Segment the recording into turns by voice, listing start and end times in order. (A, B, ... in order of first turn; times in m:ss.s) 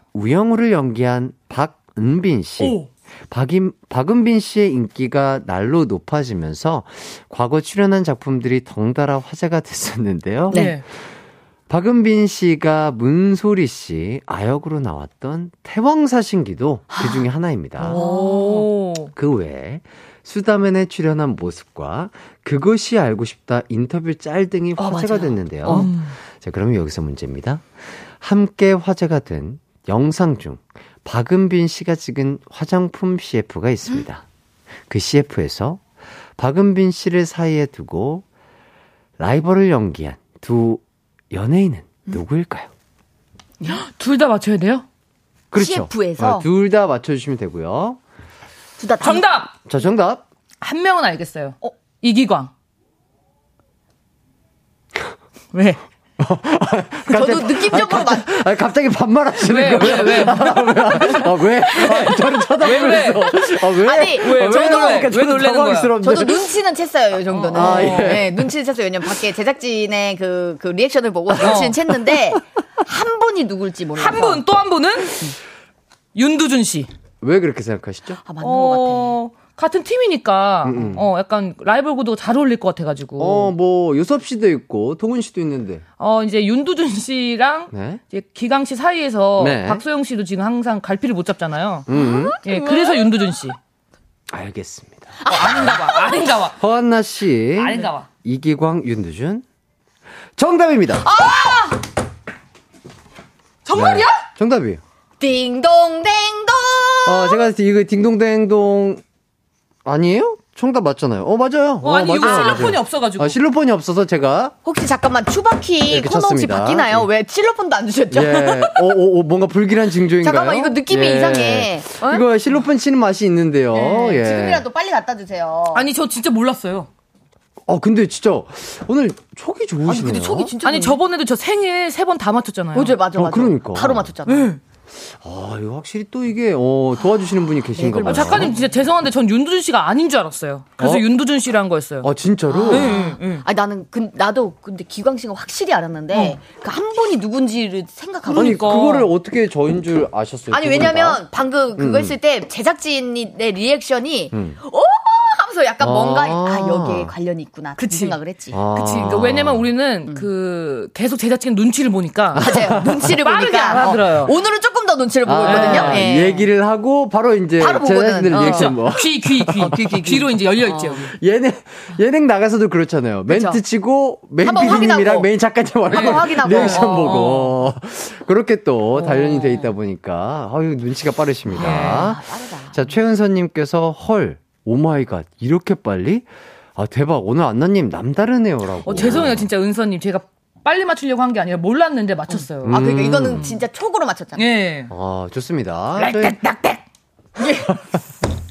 0:00.1-0:10.8 A
0:02.6-0:02.9 B
0:10.5-0:10.8 B
0:11.7-0:18.0 A
0:16.9-0:17.2 C
0:17.8-0:19.1 B
0:17.8-0:18.7 C
0:19.2-0:27.6 A
0:24.8-0:25.9 C
0:25.6-0:26.2 B
0:28.2-0:34.2 A
0:34.9-0:35.8 A
0:36.4-0:38.2 A
0:39.2-0:42.7 A
0:43.7-0:44.9 B
0:45.5-0:48.0 A
0:45.6-0:46.5 C
0:48.8-0:49.3 C
0:49.0-0:49.5 B
0:49.7-0:50.3 A
0:50.6-0:52.5 B
0:55.5-0:55.8 B
0:56.2-1:06.5 A
0:57.1-0:58.3 C
0:59.4-1:03.4 B
1:03.8-1:05.1 C
1:04.0-1:06.0 B
1:06.0-1:14.4 C
1:07.3-1:08.2 B
1:07.5-1:08.5 A
1:11.4-1:11.8 B
1:14.0-1:15.3 B
1:16.2-1:16.9 B
1:17.2-1:18.2 A
1:18.2-1:19.2 C
1:18.4-1:23.5 B
1:20.6-1:21.1 A
1:23.2-1:25.8 A
1:26.0-1:31.9 B
1:27.7-1:28.0 A
1:29.4-1:29.8 A
1:31.9-1:32.4 A
1:31.9-1:33.0 C
1:32.4-1:33.6 B
1:34.3-1:35.2 A
1:35.2-1:36.3 C
1:35.3-1:36.6 B
1:36.6-1:39.4 A
1:37.6-1:38.1 B
1:40.4-1:41.1 A
1:41.0-1:41.8 C
1:43.7-1:44.2 B
1:43.7-1:44.8 A
1:45.2-1:47.5 C
1:47.0-1:49.0 A
1:49.8-1:54.6 A
1:51.8-1:53.4 B
1:52.2-1:52.8 C
1:54.6-1:58.8 C
1:55.9-1:57.1 A
1:58.1-2:04.6 A
2:00.2-2:02.3 C
2:03.7-2:05.9 C
2:05.7-2:06.9 B
2:07.7-2:10.5 A
2:09.9-2:11.0 C
2:10.6-2:13.0 B
2:12.7-2:14.5 C
2:13.1-2:14.1 A
2:14.3-2:14.6 B
2:15.1-2:18.6 A
2:17.8-2:18.7 C
2:18.0-2:22.1 B
2:20.8-2:21.0 A
2:22.0-2:23.0 A
2:22.5-2:28.7 C
2:22.7-2:23.4 B
2:26.1-2:26.4 B
2:28.2-2:29.1 B
2:28.3-2:31.2 A
2:30.5-2:38.6 C
2:31.8-2:32.2 A
2:34.3-2:34.6 A
2:35.8-2:37.1 A
2:37.9-2:38.2 B
2:38.5-2:39.7 A
2:38.7-2:42.6 B
2:42.4-2:43.2 A
2:42.4-2:46.5 C
2:43.1-2:44.4 B
2:45.2-2:50.1 A
2:45.4-2:46.1 B
2:47.6-2:48.9 C
2:48.3-2:51.1 B
2:49.6-2:51.1 C
2:51.1-3:09.5 A
2:53.3-2:53.6 C
2:54.4-2:55.3 C
2:55.9-2:57.3 C
2:55.9-2:57.6 B
3:01.5-3:02.8 C
3:01.6-3:02.1 B
3:08.8-3:13.6 B
3:12.3-3:14.5 C
3:12.6-3:13.5 A
3:14.4-3:14.9 B
3:14.9-3:16.4 A
3:16.0-3:16.8 B
3:17.4-3:17.7 C